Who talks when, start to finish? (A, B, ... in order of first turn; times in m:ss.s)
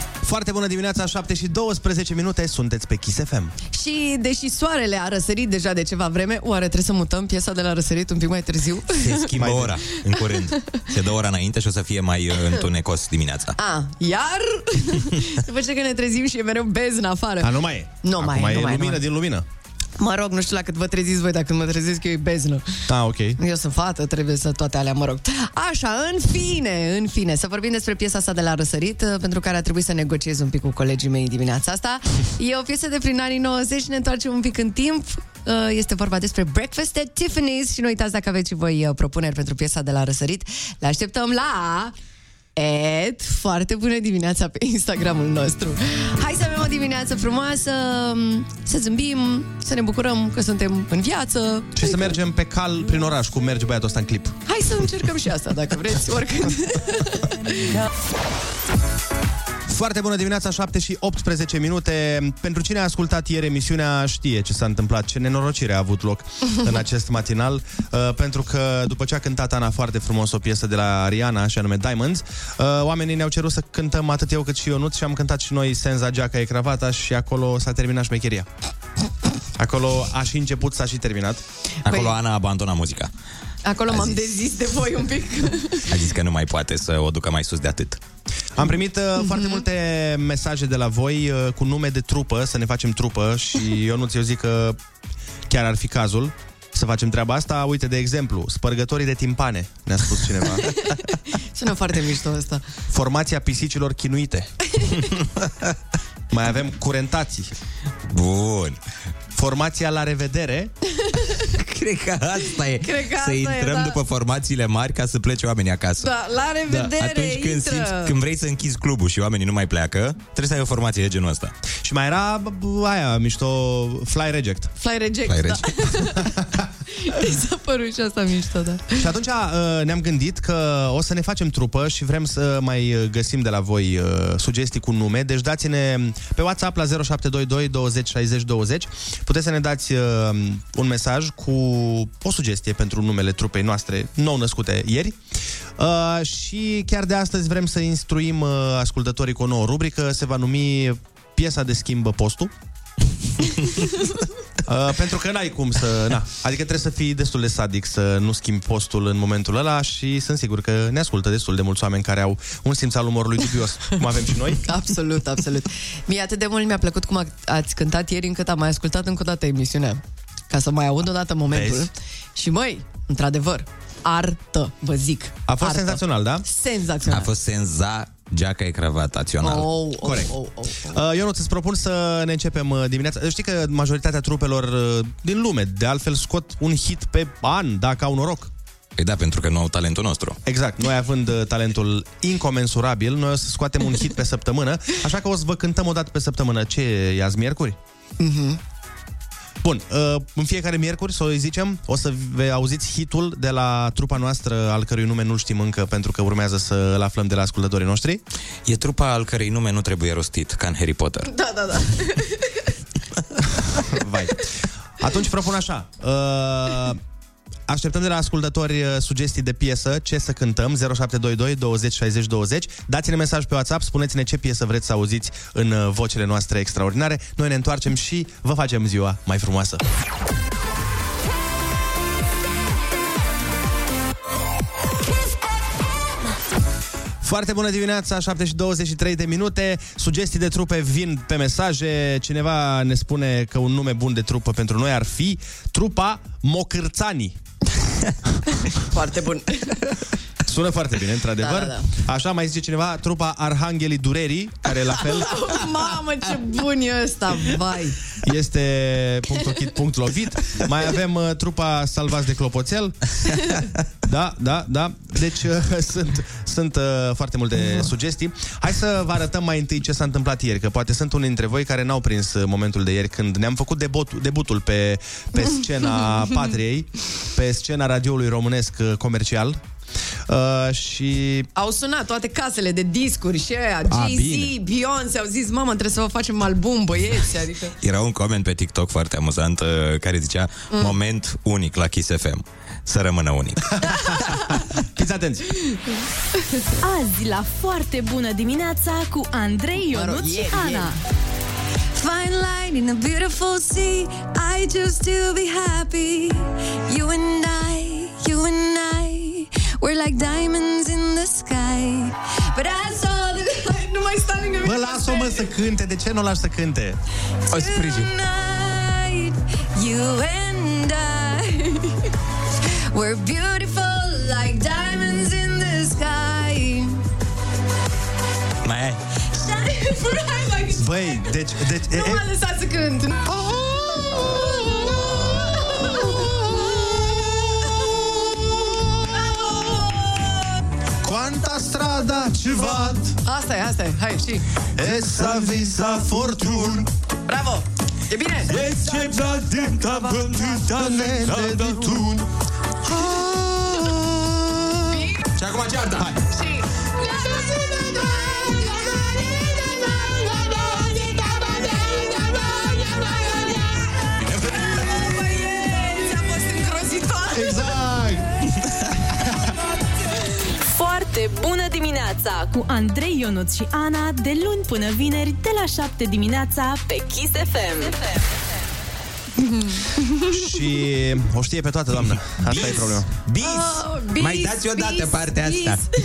0:00.2-0:03.5 A
0:03.7-0:09.3 B
0:09.0-0:13.6 C
0:09.4-0:09.8 A
0:13.6-0:19.0 B
0:17.4-0:19.5 A
0:20.0-0:22.9 B
0:22.9-0:23.4 A
0:23.4-0:42.0 B
0:42.6-0:52.2 B
0:51.8-0:54.4 A
0:54.5-0:57.8 B
0:59.7-1:18.5 A
1:19.6-1:21.4 A
1:21.9-1:23.1 C
1:21.9-1:22.2 B
1:23.6-1:25.9 B
1:23.9-1:24.3 C
1:25.9-1:28.0 C
1:28.6-1:34.8 A
1:29.2-1:29.6 B
1:35.5-1:40.7 A
1:41.3-1:42.6 B
1:42.9-1:44.5 A
1:45.1-1:45.7 C
1:46.3-1:47.5 A
1:48.1-1:48.8 C
1:49.3-1:50.7 A
1:51.1-1:51.4 B
1:51.5-1:56.1 C
1:52.8-1:54.0 B
1:56.0-1:58.2 B
1:56.7-2:01.5 C
2:01.8-2:04.7 A
2:04.8-2:06.4 B
2:05.3-2:06.1 C
2:06.9-2:09.1 B
2:09.0-2:25.2 A
2:25.8-2:32.5 A
2:34.7-2:44.6 A
2:44.6-2:57.3 B
2:51.5-2:51.9 A
2:55.5-2:56.4 A
2:57.1-2:59.7 C
2:59.4-3:01.0 B
3:00.0-3:00.3 A
3:00.9-3:08.5 A
3:09.0-3:10.4 C
3:10.5-3:17.8 A
3:18.2-3:18.6 B
3:19.6-3:28.2 A
3:28.6-3:31.3 C
3:31.2-3:32.6 B
3:33.8-3:37.0 A
3:37.7-3:49.8 A
3:57.2-4:07.4 A
4:08.7-4:09.9 B
4:10.4-4:15.4 A
4:11.4-4:11.9 B
4:14.9-4:18.0 B
4:18.2-4:23.1 A
4:24.0-4:39.6 A
4:40.3-4:41.5 A
4:41.6-4:47.7 B
4:43.9-4:44.4 A
4:47.8-4:54.2 C
4:54.9-4:55.5 A
4:56.8-5:01.0 D
4:59.9-5:00.9 B
5:02.0-5:15.4 B
5:14.6-5:17.0 A
5:17.5-5:22.1 B
5:22.9-5:27.0 B
5:28.6-5:29.0 C
5:29.3-5:33.3 B
5:30.8-5:32.3 A
5:33.3-5:34.5 A
5:34.1-5:37.7 B
5:36.2-5:38.8 A
5:39.0-5:40.5 B
5:41.0-5:43.2 A
5:43.2-5:44.4 B
5:44.8-5:46.9 A
5:47.3-5:50.5 B
5:48.5-5:52.2 C
5:50.5-5:52.3 A
5:52.8-5:55.0 A
5:54.9-5:55.2 B
5:55.4-5:56.1 C
5:56.3-5:59.0 B
5:57.4-5:58.8 A
6:00.2-6:00.6 B
6:01.1-6:03.6 B
6:01.7-6:02.3 A
6:04.2-6:04.8 C
6:04.5-6:07.6 B
6:07.3-6:08.3 A
6:10.7-6:18.0 D
6:19.5-6:20.2 B
6:20.3-6:23.1 A
6:22.4-6:25.8 C
6:23.4-6:25.8 B